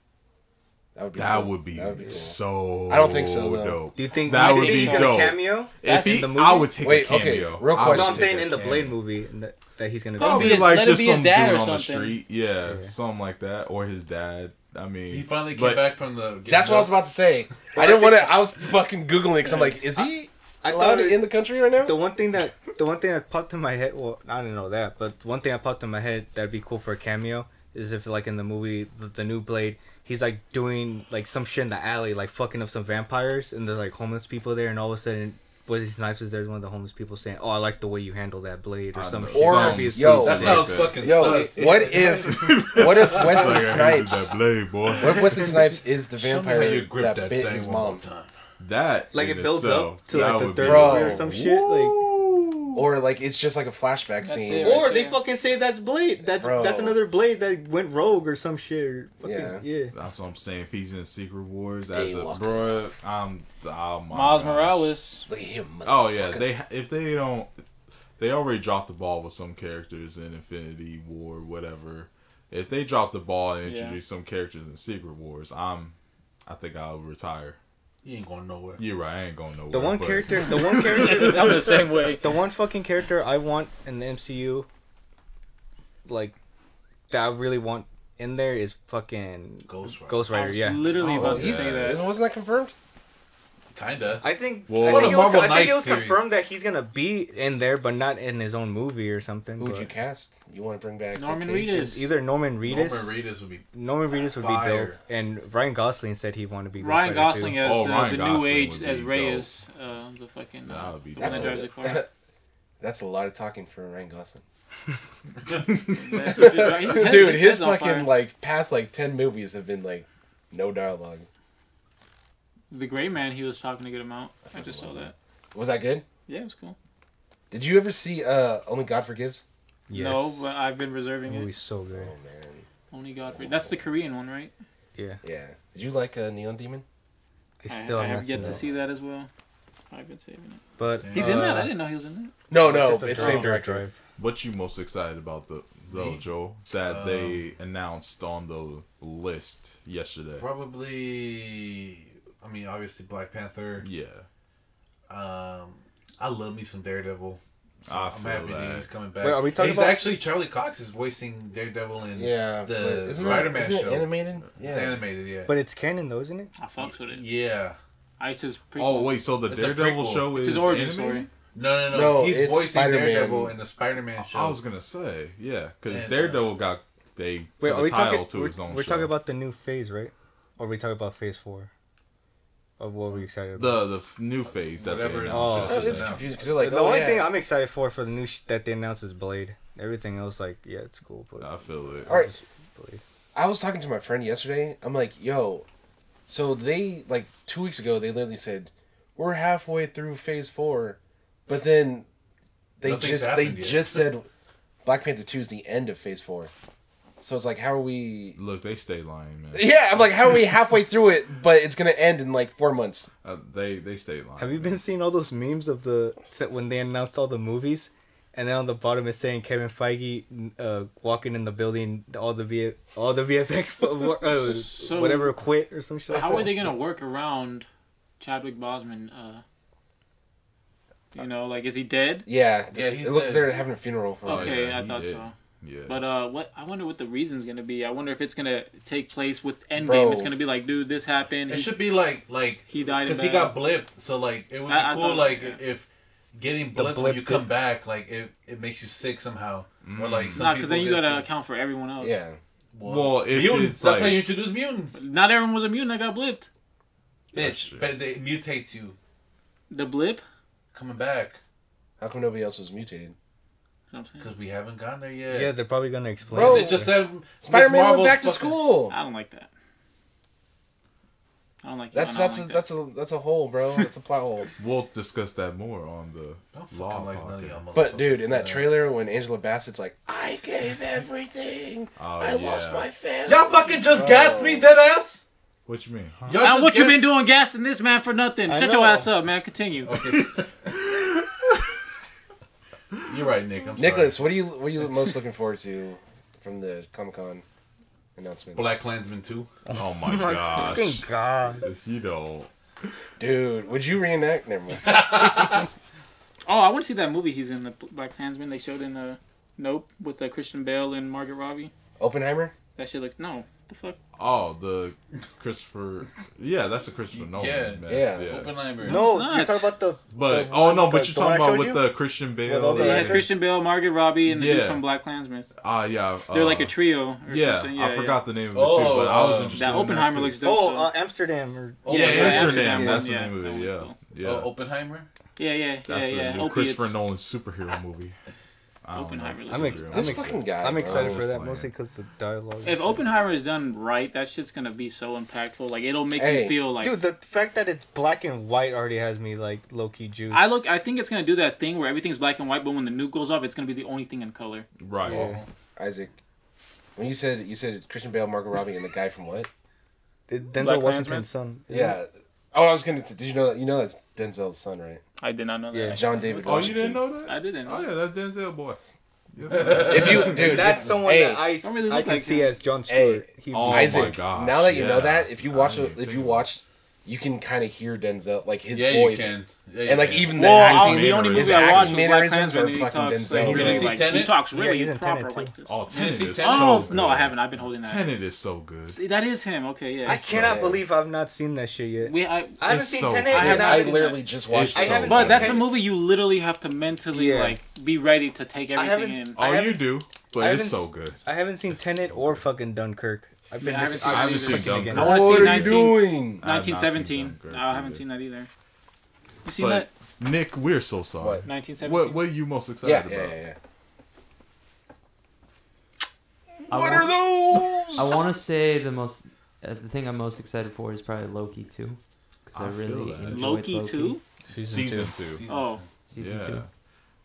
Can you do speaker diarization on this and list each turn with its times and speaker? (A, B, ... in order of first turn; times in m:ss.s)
0:00.9-0:03.8 A
0:01.2-0:08.9 B
0:04.0-0:06.7 C
0:04.1-0:05.2 D
0:05.8-0:06.3 D
0:06.8-0:08.6 A
0:07.8-0:10.7 C
0:10.2-0:12.2 D
0:10.2-0:15.9 B
0:12.6-0:12.9 C
0:15.1-0:17.0 E
0:16.5-0:22.0 A
0:17.8-0:18.1 C
0:20.6-0:40.5 C
0:38.9-0:41.4 B
0:39.3-0:44.4 A
0:40.2-0:43.8 E
0:42.2-0:45.6 B
0:44.9-0:48.3 E
0:45.0-0:48.0 A
0:48.6-0:52.9 B
0:49.1-0:52.0 C
0:50.1-0:51.5 A
0:52.7-0:54.9 A
0:54.2-0:55.2 D
0:54.6-0:59.9 C
0:56.3-0:57.0 A
0:59.2-0:59.6 A
0:59.9-1:04.9 B
1:01.9-1:02.6 A
1:04.1-1:05.3 D
1:05.3-1:06.5 A
1:05.8-1:07.6 B
1:08.2-1:15.9 B
1:13.6-1:14.0 D
1:16.4-1:17.6 B
1:18.0-1:18.8 E
1:18.8-1:20.7 B
1:19.7-1:21.7 C
1:20.9-1:22.3 D
1:21.1-1:21.5 E
1:22.2-1:24.7 C
1:26.0-1:26.3 C
1:27.1-1:31.3 C
1:29.7-1:30.3 E
1:30.3-1:32.2 D
1:31.0-1:32.0 B
1:31.0-1:31.9 E
1:31.1-1:32.7 A
1:33.7-1:34.2 E
1:34.2-1:39.9 C
1:34.7-1:35.4 B
1:34.8-1:36.2 E
1:39.6-1:41.9 A
1:41.1-1:42.1 D
1:41.7-1:43.2 C
1:42.6-1:43.7 E
1:43.7-1:47.6 C
1:44.2-1:45.0 E
1:46.8-1:52.0 D
1:47.6-1:49.5 B
1:50.7-1:51.6 B
1:51.2-1:52.1 A
1:52.8-1:54.4 A
1:55.9-1:58.1 D
1:56.2-2:01.3 A
2:02.7-2:05.1 D
2:04.4-2:06.0 A
2:06.3-2:06.8 D
2:07.5-2:09.4 A
2:09.9-2:10.4 C
2:09.9-2:11.5 D
2:11.3-2:12.1 C
2:11.9-2:12.6 A
2:12.9-2:14.5 D
2:13.2-2:13.8 A
2:14.9-2:15.2 C
2:15.2-2:16.8 A
2:17.6-2:18.6 C
2:17.7-2:19.3 D
2:19.9-2:20.6 D
2:20.8-2:21.7 C
2:21.0-2:21.4 E
2:21.1-2:22.3 D
2:22.5-2:23.9 A
2:22.5-2:24.0 C
2:23.1-2:23.5 D
2:24.2-2:30.4 B
2:25.9-2:26.2 E
2:26.8-2:27.4 E
2:30.4-2:33.9 E
2:33.8-2:34.3 B
2:35.1-2:45.5 E
2:37.8-2:38.9 B
2:39.2-2:40.1 C
2:42.1-2:45.0 A
2:45.5-2:46.5 C
2:46.6-2:47.2 D
2:46.8-2:47.8 E
2:48.2-2:49.2 D
2:48.8-2:51.3 B
2:49.4-2:50.3 E
2:50.2-2:51.3 D
2:51.5-2:54.6 E
2:51.9-2:53.6 A
2:54.2-2:59.1 B
2:55.9-2:56.5 E
2:57.6-3:01.7 C
3:02.8-3:03.8 C
3:03.6-3:06.2 B
3:04.7-3:06.2 E
3:05.3-3:13.0 C
3:05.6-3:07.3 A
3:11.4-3:12.1 B
3:12.1-3:12.3 A
3:13.3-3:15.6 A
3:16.3-3:22.0 A
3:22.8-3:24.3 A
3:22.8-3:24.1 E
3:24.8-3:26.5 A
3:27.2-3:28.4 A
3:28.4-3:30.0 B
3:29.5-3:33.1 A
3:33.2-3:34.8 B
3:34.4-3:46.5 C
3:44.3-3:45.4 D
3:46.1-3:47.6 D
3:46.1-3:46.5 A
3:48.2-3:49.4 D
3:51.1-3:52.3 D
3:52.3-3:54.6 A
3:52.7-3:53.5 E
3:54.2-3:55.3 D
3:54.2-3:56.0 B
3:55.8-4:01.8 D
3:59.7-4:00.3 A
4:01.5-4:11.3 E
4:02.7-4:03.6 D
4:04.6-4:05.6 D
4:06.7-4:07.5 C
4:09.8-4:10.4 B
4:10.4-4:12.2 D
4:12.0-4:12.4 A
4:12.7-4:15.0 E
4:12.8-4:14.3 B
4:15.0-4:16.4 D
4:17.3-4:19.0 E
4:17.3-4:18.0 B
4:19.7-4:20.2 D
4:20.7-4:21.4 E
4:22.0-4:23.1 A
4:23.9-4:24.3 D
4:24.2-4:25.6 E
4:25.3-4:26.9 C
4:26.3-4:28.9 A
4:26.3-4:28.6 E
4:28.9-4:29.5 D
4:31.6-4:32.7 D
4:31.9-4:34.5 A
4:34.6-4:37.6 B
4:36.5-4:38.8 E
4:37.7-4:44.7 A
4:42.0-4:42.9 B
4:43.3-4:45.2 E
4:45.7-4:46.2 B
4:46.3-4:47.1 E
4:46.4-4:49.9 D
4:48.5-4:49.1 C
4:49.8-4:50.5 E
4:50.0-4:50.3 B
4:50.9-4:51.2 B
4:53.0-4:54.2 E
4:53.8-4:57.4 A
4:58.2-4:58.7 A
4:58.6-4:59.5 E
4:59.6-5:01.6 C
4:59.7-5:02.5 B
5:03.2-5:05.0 A
5:04.8-5:05.7 E
5:06.5-5:11.7 D
5:12.0-5:12.5 A
5:12.8-5:14.0 D
5:14.2-5:18.5 B
5:17.1-5:19.0 E
5:17.9-5:18.3 A
5:18.8-5:21.9 C
5:18.9-5:19.7 D
5:20.1-5:23.3 B
5:22.4-5:23.3 C
5:22.7-5:25.5 D
5:24.3-5:24.8 B
5:25.6-5:26.7 B
5:26.3-5:28.2 D
5:27.3-5:30.3 B
5:28.5-5:29.8 E
5:29.5-5:30.9 D
5:29.7-5:33.1 C
5:31.8-5:32.6 E
5:31.9-5:33.9 D
5:31.9-5:34.5 B
5:34.2-5:35.1 E
5:35.4-5:36.9 D
5:35.9-5:38.2 B
5:38.8-5:41.7 B
5:38.9-5:39.9 D
5:39.5-5:43.0 C
5:39.9-5:41.2 A
5:42.6-5:46.9 D
5:46.1-5:46.6 A
5:46.8-5:50.5 C
5:50.3-5:54.6 D
5:54.8-5:55.3 B
5:55.1-5:56.2 A
5:55.1-5:55.5 E
5:57.0-5:59.5 A
6:00.3-6:02.0 C
6:00.6-6:01.3 D
6:01.7-6:05.0 A
6:05.2-6:07.9 D
6:05.7-6:06.0 C
6:05.8-6:07.0 A
6:06.4-6:08.8 B
6:09.4-6:10.7 B
6:09.5-6:10.4 E
6:09.8-6:11.5 A
6:10.2-6:14.2 C
6:11.6-6:12.6 D
6:12.9-6:24.0 A
6:13.5-6:16.5 B
6:18.7-6:20.3 E
6:20.3-6:28.1 D
6:20.4-6:22.1 B
6:23.4-6:25.5 C
6:23.4-6:24.3 E
6:25.6-6:29.0 B
6:25.9-6:26.9 E
6:28.9-6:30.3 D
6:30.0-6:34.1 C
6:30.0-6:30.6 B
6:30.2-6:30.8 A
6:32.0-6:32.6 D
6:32.6-6:33.6 B
6:33.3-6:34.2 D
6:33.3-6:35.7 A
6:34.5-6:35.6 B
6:34.7-6:35.6 C
6:35.0-6:39.4 D
6:37.1-6:37.6 C
6:38.7-6:45.2 C
6:39.3-6:42.4 B
6:43.6-6:48.5 D
6:44.0-6:48.0 B
6:44.9-6:46.4 A
6:49.4-6:49.9 D
6:49.6-6:53.4 B
6:51.2-6:51.4 A
6:51.4-6:52.2 D
6:52.8-6:53.6 A
6:56.7-6:58.3 A
6:56.7-6:57.4 F
6:58.0-7:04.2 F
7:02.6-7:03.5 B
7:03.3-7:04.2 D
7:04.5-7:05.1 C
7:04.6-7:05.4 B
7:05.2-7:05.9 E
7:05.5-7:05.8 D
7:06.1-7:06.6 F
7:06.2-7:06.7 B